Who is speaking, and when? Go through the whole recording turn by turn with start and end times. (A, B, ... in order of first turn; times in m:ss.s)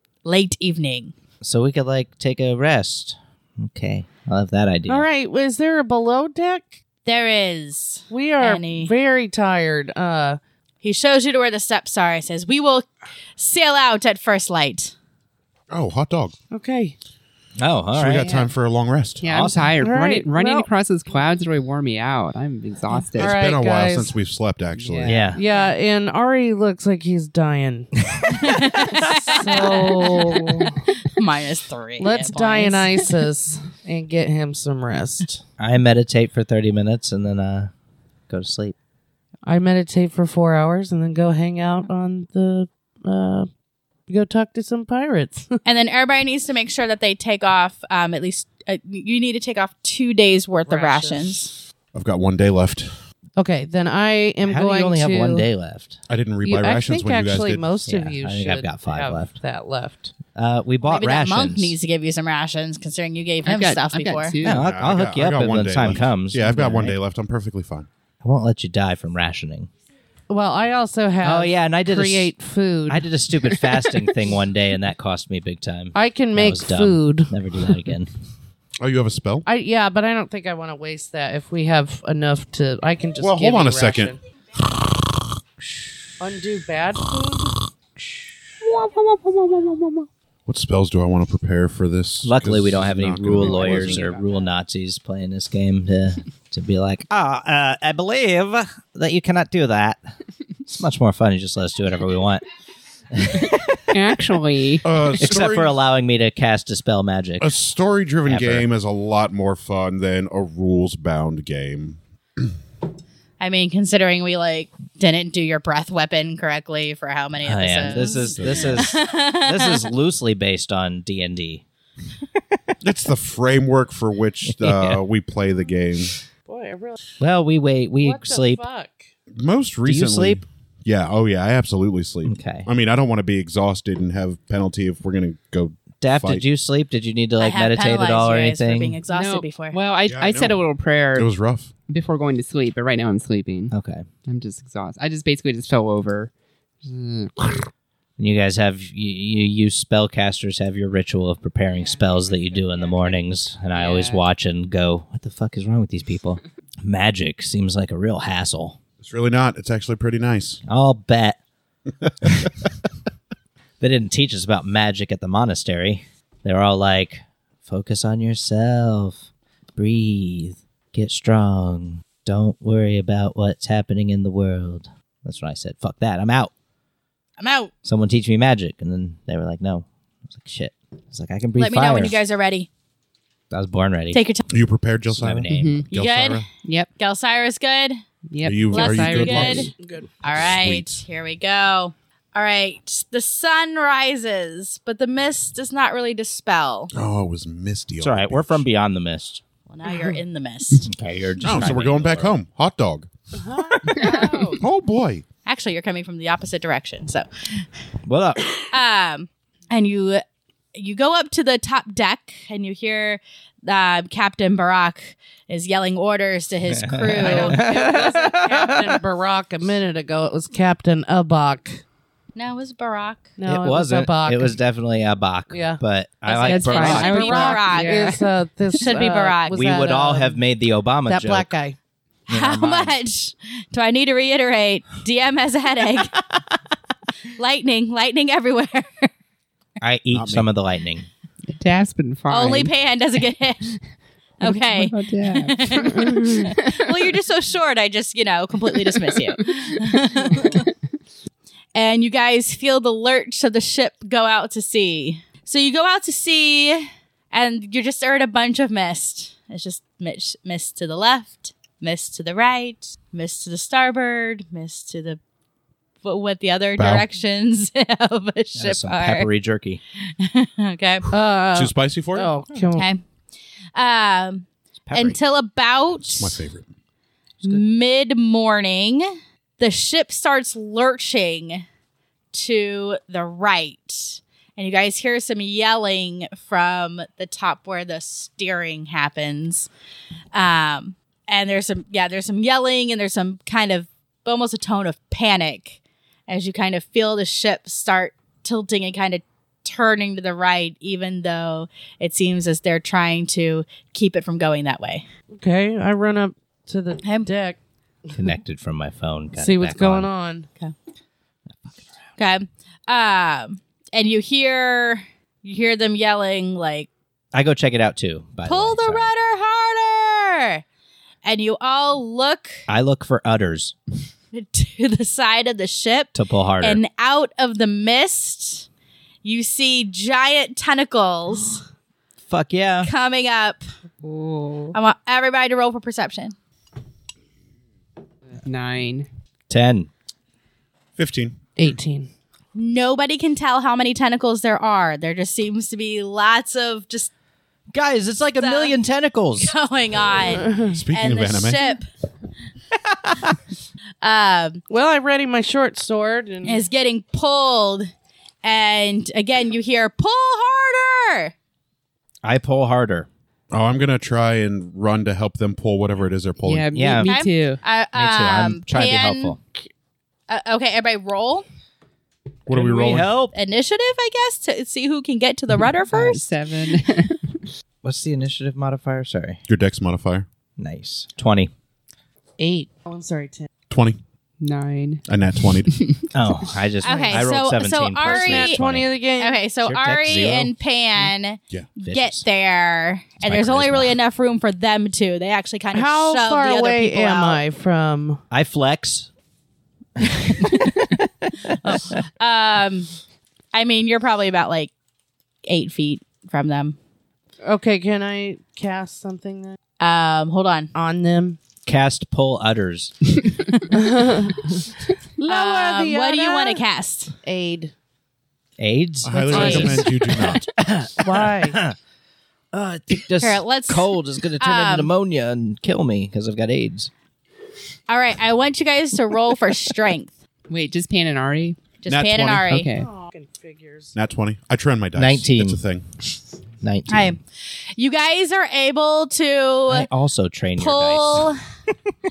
0:00.2-0:01.1 A
0:01.4-0:05.0 B
0:04.9-0:06.8 C
0:07.0-0:08.9 A
0:08.1-0:10.4 C
0:10.8-0:14.9 A
0:15.7-0:16.4 D
0:16.5-0:17.0 C
0:17.6-0:18.3 B
0:17.9-0:19.2 D
0:18.2-0:18.5 E
0:19.2-0:23.4 E
0:19.3-0:19.8 B
0:19.8-0:20.7 C
0:23.2-0:24.2 C
0:23.2-0:25.3 D
0:24.8-0:25.1 E
0:25.0-0:25.4 B
0:25.3-0:27.9 C
0:28.0-0:28.6 B
0:28.3-0:30.0 A
0:29.3-0:30.8 C
0:31.1-0:33.0 A
0:32.0-0:35.4 C
0:35.6-0:37.7 B
0:38.3-0:38.8 B
0:39.5-0:43.5 C
0:44.1-0:45.6 C
0:45.6-0:51.5 A
0:50.7-0:51.4 C
0:51.9-0:52.9 D
0:53.4-0:55.5 C
0:54.4-0:56.0 B
0:56.1-0:57.7 D
0:56.4-1:00.2 C
0:57.9-0:59.4 B
1:00.3-1:01.8 B
1:00.8-1:04.4 A
1:03.4-1:04.6 E
1:04.4-1:07.0 B
1:04.4-1:07.9 D
1:08.2-1:09.7 B
1:10.3-1:14.2 C
1:11.2-1:12.4 B
1:12.9-1:18.1 B
1:15.9-1:17.7 C
1:18.8-1:19.5 D
1:19.5-1:24.2 C
1:23.2-1:24.2 D
1:26.2-1:27.6 C
1:28.7-1:29.8 E
1:30.5-1:34.1 D
1:32.2-1:40.0 B
1:33.4-1:34.5 E
1:40.7-1:42.4 B
1:43.1-1:44.0 B
1:43.9-1:45.3 E
1:44.8-1:45.8 D
1:45.2-1:47.5 B
1:47.4-1:52.5 D
1:48.3-1:48.6 B
1:53.4-1:59.9 A
1:57.4-2:01.6 B
1:57.9-1:58.9 D
2:02.8-2:06.1 D
2:04.5-2:05.0 B
2:06.5-2:07.0 C
2:07.2-2:08.6 B
2:08.0-2:09.1 C
2:09.3-2:16.4 D
2:09.9-2:10.4 B
2:12.2-2:12.7 B
2:16.0-2:19.0 B
2:17.4-2:19.8 A
2:19.1-2:21.3 E
2:20.1-2:20.6 D
2:21.1-2:21.7 D
2:21.9-2:23.7 E
2:23.7-2:24.1 B
2:24.3-2:26.3 E
2:26.8-2:27.6 E
2:28.2-2:38.8 B
2:31.7-2:33.2 E
2:33.7-2:34.2 E
2:39.0-2:40.6 D
2:40.7-2:41.4 B
2:42.0-2:42.7 D
2:43.8-2:56.5 B
2:57.4-2:57.7 A
2:57.8-3:02.2 B
3:01.6-3:02.7 A
3:03.5-3:04.2 B
3:04.1-3:04.5 A
3:04.5-3:06.5 D
3:05.1-3:05.8 B
3:05.5-3:05.9 E
3:05.8-3:06.4 A
3:06.6-3:06.9 E
3:07.0-3:08.0 A
3:08.3-3:09.7 E
3:08.4-3:09.7 D
3:08.7-3:09.7 A
3:09.8-3:10.1 C
3:10.2-3:16.9 A
3:10.3-3:11.0 D
3:16.9-3:18.7 D
3:18.0-3:19.4 B
3:19.7-3:20.9 A
3:20.8-3:22.3 B
3:21.4-3:23.1 D
3:23.3-3:24.6 C
3:24.0-3:24.4 E
3:24.6-3:25.2 D
3:25.5-3:27.7 A
3:28.1-3:28.7 B
3:28.5-3:38.6 A
3:36.7-3:38.9 B
3:37.2-3:41.8 C
3:42.4-3:43.4 A
3:43.4-3:44.6 C
3:43.5-3:47.4 B
3:45.5-3:45.8 C
3:46.2-3:48.2 A
3:46.4-3:48.2 E
3:46.7-3:50.4 C
3:48.7-3:49.8 A
3:49.5-3:51.5 B
3:51.1-3:51.8 C
3:52.3-3:53.0 B
3:52.3-3:56.2 A
3:57.4-3:59.1 A
3:59.8-4:01.1 B
4:00.1-4:00.5 D
4:01.5-4:02.7 E
4:02.3-4:03.7 A
4:04.4-4:10.7 A
4:04.4-4:07.1 E
4:06.0-4:06.3 C
4:08.8-4:09.2 E
4:10.2-4:10.7 E
4:11.8-4:25.2 A
4:26.0-4:29.3 A
4:26.8-4:27.0 D
4:28.6-4:29.8 B
4:30.2-4:31.1 A
4:31.1-4:32.9 C
4:31.5-4:32.3 D
4:32.7-4:33.0 A
4:33.8-4:36.4 A
4:34.9-4:35.2 B
4:36.0-4:36.7 D
4:37.4-4:41.6 A
4:42.3-4:49.7 A
4:50.3-5:05.1 A
5:05.3-5:07.6 C
5:07.0-5:07.3 A
5:08.2-5:10.1 B
5:09.3-5:10.5 C
5:12.2-5:16.9 A
5:17.3-5:19.1 B
5:18.4-5:20.6 A
5:21.2-5:22.6 A
5:22.7-5:23.8 B
5:24.3-5:28.7 A
5:26.1-5:26.8 B
5:29.2-5:31.6 A
5:32.3-5:32.9 B
5:32.8-5:33.6 A
5:34.0-5:34.8 E
5:34.7-5:36.4 A
5:38.3-5:39.1 E
5:39.5-5:39.9 B
5:41.0-5:41.4 D
5:41.6-5:42.1 C
5:42.6-5:47.1 A
5:47.7-5:49.5 B
5:48.4-5:48.8 A
5:49.4-5:51.9 A
5:50.3-5:50.8 C
5:50.7-5:51.6 D
5:54.0-5:54.6 A
5:54.7-5:56.6 C
5:56.4-5:57.9 A
5:58.4-6:01.3 A
6:02.2-6:03.1 B
6:03.5-6:06.7 D
6:06.4-6:07.6 E
6:06.7-6:07.1 B
6:07.0-6:09.4 A
6:07.9-6:09.4 B
6:10.3-6:11.4 A
6:12.5-6:13.1 D
6:12.5-6:13.3 B
6:13.3-6:16.2 A
6:15.9-6:17.4 E
6:17.8-6:19.4 B
6:19.5-6:20.3 D
6:20.6-6:21.5 B
6:22.4-6:23.5 C
6:23.7-6:24.0 D
6:24.4-6:25.0 E
6:25.1-6:25.7 D
6:25.7-6:26.1 E
6:26.1-6:28.9 B
6:26.8-6:28.6 A
6:26.8-6:27.3 C
6:28.0-6:29.4 C
6:29.2-6:37.4 A
6:29.6-6:30.6 B
6:31.8-6:32.2 B
6:33.2-6:34.0 B
6:35.7-6:38.2 C
6:38.3-6:39.1 B
6:40.0-6:40.7 B
6:40.4-6:40.8 A
6:41.5-6:42.0 B
6:41.6-6:42.9 A
6:43.5-6:44.7 A
6:45.4-6:46.8 A
6:47.4-6:49.6 C
6:49.8-6:50.7 A
6:50.7-6:51.4 C
6:51.7-6:52.9 B
6:53.7-6:54.6 C
6:55.2-6:56.6 C
6:55.3-6:57.1 A
6:57.2-6:57.7 C
6:58.6-7:01.8 B
6:59.0-7:00.4 D
6:59.3-6:59.8 C
6:59.3-6:59.8 A
7:01.0-7:01.6 C
7:02.5-7:06.9 B
7:03.2-7:04.9 A
7:07.9-7:10.1 A
7:10.5-7:11.6 E
7:11.8-7:12.7 A
7:11.9-7:12.6 D
7:12.5-7:12.9 E
7:12.8-7:13.9 C
7:13.9-7:15.8 D
7:15.0-7:15.6 B
7:16.6-7:17.2 B
7:16.9-7:19.9 A
7:19.7-7:21.3 B
7:20.6-7:21.4 A